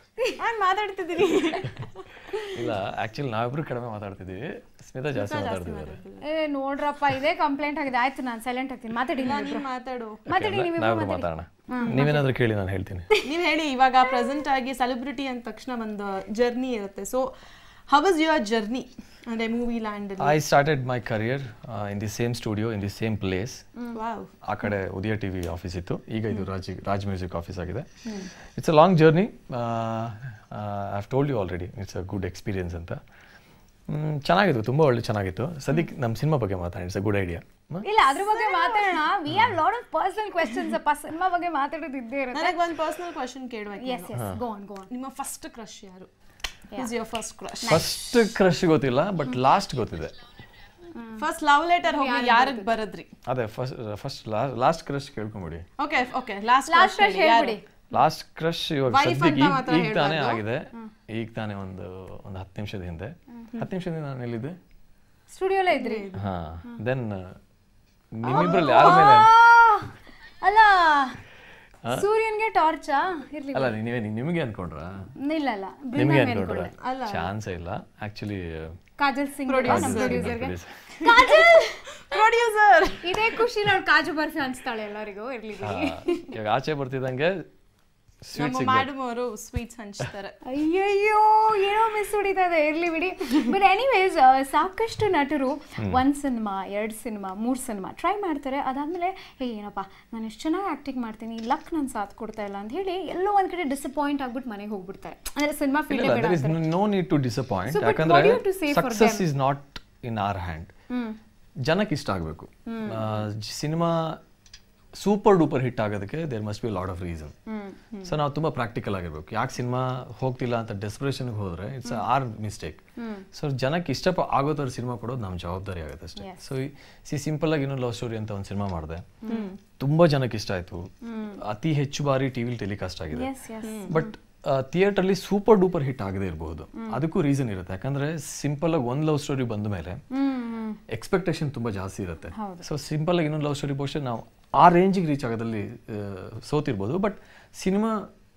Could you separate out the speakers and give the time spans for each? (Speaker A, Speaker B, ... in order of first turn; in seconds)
Speaker A: 0.4-2.6, 5.1-6.2, 9.2-10.2, 11.8-12.1, 13.2-17.3, 17.9-20.4, 23.9-24.3, 38.2-39.0, 42.3-44.1, 44.9-46.1, 46.8-48.0, 51.2-53.1, 55.8-57.6, 58.9-60.4, 65.7-66.2, 68.4-69.1, 76.8-77.3, 79.5-80.5, 81.0-81.5, 82.1-83.4, 88.3-90.4, 129.3-129.6, 133.6-133.9
Speaker B: 2.5-6.0, 10.3-13.1, 20.2-23.6, 24.4-27.9, 28.4-33.0, 33.9-37.9, 39.3-39.6, 44.1-44.4, 47.7-50.1, 53.2-55.6, 57.9-64.6, 66.1-67.4, 68.1-69.3, 73.5-75.1, 75.9-78.8, 79.6-80.7, 85.6-87.4, 88.2-88.9, 105.9-110.7, 111.7-114.2, 115.0-117.3, 118.0-122.8, 123.3-129.0, 129.8-130.9, 131.4-133.3, 133.9-140.0, 140.9-148.1
Speaker C: 6.2-9.7, 10.3-12.2, 37.8-42.6, 43.8-44.9, 47.6-48.0, 50.9-51.2, 51.8-52.7, 56.7-57.6, 65.3-66.1, 68.2-71.2, 71.9-73.8, 75.2-76.7, 79.0-82.2, 83.0-86.3, 90.4-106.6, 107.7-109.3, 110.9-111.2, 112.7-113.1, 117.5-118.1, 123.0-123.2, 126.2-126.4, 129.2-129.5, 131.0-131.4, 133.1-134.1, 140.1-140.8, 142.3-142.7